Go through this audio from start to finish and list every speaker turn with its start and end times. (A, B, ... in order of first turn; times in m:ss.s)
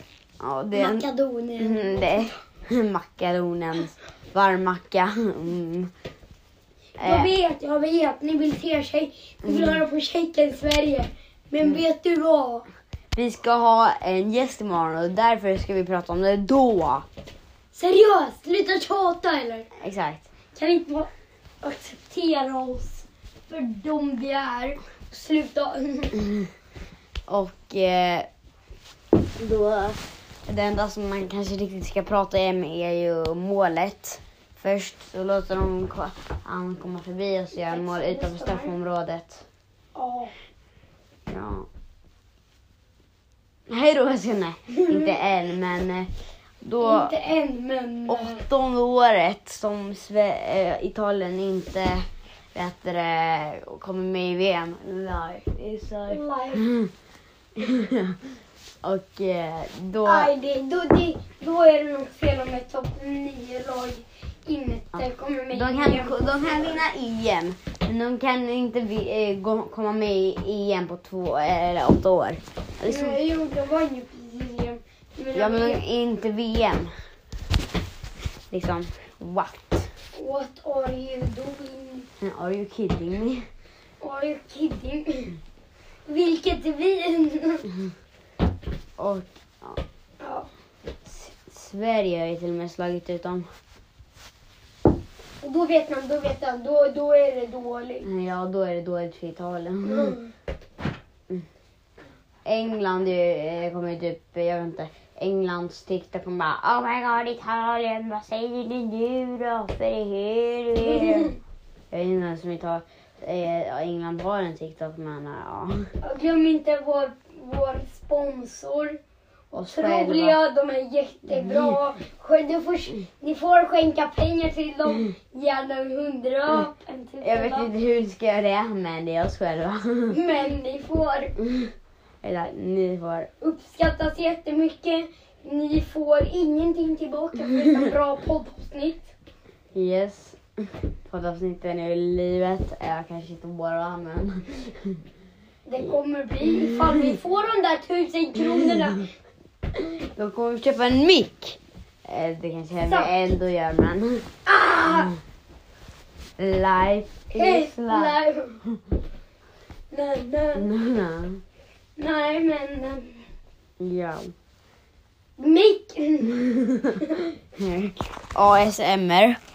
0:00.4-0:01.1 A
0:00.7-0:02.3 B
0:01.6-0:05.9 A
0:07.0-0:07.3 A
0:07.0-0:12.6 B
0:09.4-0:09.8 A
0:13.1-0:17.0 A
0:17.7-0:19.7 B
0:19.8-0:20.2 A
0:20.5-0:21.1 B
0:21.6-0:26.2 B
0:27.3-0:28.3 A
0:29.4-0:39.4 A
0:37.6-0:38.7 B
0:39.9-0:40.3 B
0:41.3-0:41.7 A
0:43.7-0:46.1 A
0:46.6-0:47.1 A
0:46.8-0:48.4 B
0:48.1-0:56.9 A
0:56.1-0:56.6 B
0:57.6-0:58.2 A
0:58.8-1:00.3 A
1:00.0-1:06.8 B
1:05.0-1:13.2 A
1:12.8-1:15.8 B
1:15.3-1:16.9 A
1:18.5-1:19.9 A
1:20.2-1:22.1 B
1:22.2-1:23.4 A
1:24.0-1:25.4 B
1:26.1-1:27.7 B
1:29.0-1:29.8 A
1:30.2-1:30.5 B
1:31.0-1:33.5 A
1:35.4-1:38.1 B
1:38.0-1:40.2 A
1:39.8-1:40.3 B
1:42.4-1:51.3 A
1:50.9-1:51.3 B
1:51.9-1:55.8 A
1:56.0-1:59.0 B
1:59.5-2:00.4 A
1:59.6-2:07.7 B
2:01.3-2:01.8 A
2:07.2-2:10.2 A
2:10.1-2:11.3 B
2:11.4-2:11.7 A
2:12.2-2:13.3 A
2:13.4-2:19.1 B
2:19.7-2:20.4 A
2:21.0-2:25.0 A
2:25.6-2:29.1 B
2:26.7-2:27.2 A
2:30.1-2:34.3 A
2:32.8-2:33.1 B
2:34.4-2:35.1 B
2:36.4-2:38.8 A
2:37.3-2:38.6 B
2:39.9-2:40.7 B
2:40.5-2:41.4 A
2:42.0-2:43.2 B
2:43.8-2:44.3 A
2:45.4-2:46.4 B
2:46.4-2:47.0 A
2:47.0-2:47.3 B
2:47.6-2:49.4 A